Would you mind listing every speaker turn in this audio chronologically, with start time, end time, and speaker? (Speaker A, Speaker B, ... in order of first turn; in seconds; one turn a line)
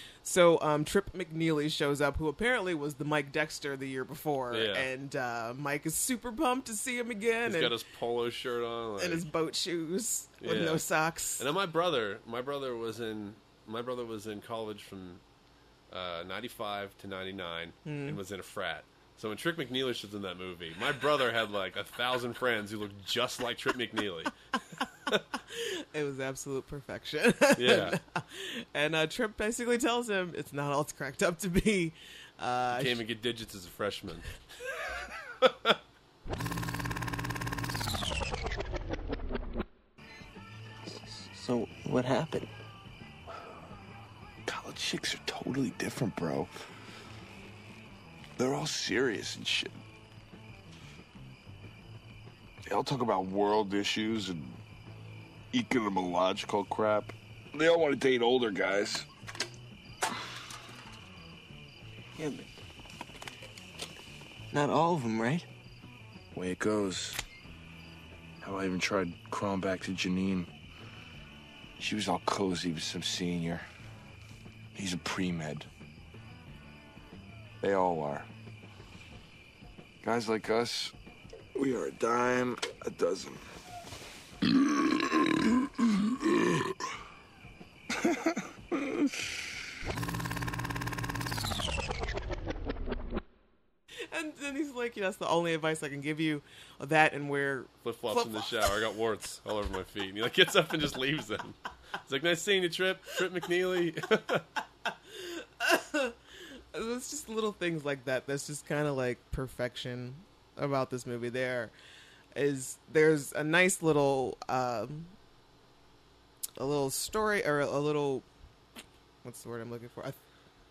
Speaker A: 0.2-7.7
Speaker B: 4.5-4.9
Speaker B: 7.4-9.2
Speaker A: 9.0-11.4
Speaker B: 10.4-10.8
Speaker B: 11.4-15.2
Speaker B: 15.9-24.3
Speaker A: 17.8-18.2
Speaker A: 25.4-33.0
Speaker B: 27.6-28.0
Speaker B: 32.7-34.3
Speaker B: 35.4-35.8
Speaker C: 40.9-42.5
Speaker D: 44.5-46.5
Speaker D: 48.4-49.8
Speaker D: 52.6-54.6
Speaker D: 55.5-59.1
Speaker C: 62.1-62.5
Speaker C: 64.5-65.5
Speaker D: 66.3-67.2
Speaker D: 68.4-70.5
Speaker D: 71.8-73.6
Speaker D: 74.7-75.7
Speaker D: 77.6-78.3
Speaker D: 80.0-80.9
Speaker D: 81.5-83.4
Speaker A: 94.1-98.8
Speaker B: 97.8-104.5
Speaker A: 105.1-106.2
Speaker A: 106.7-111.7
Speaker A: 112.3-115.1
Speaker A: 116.6-118.2
Speaker A: 119.2-120.2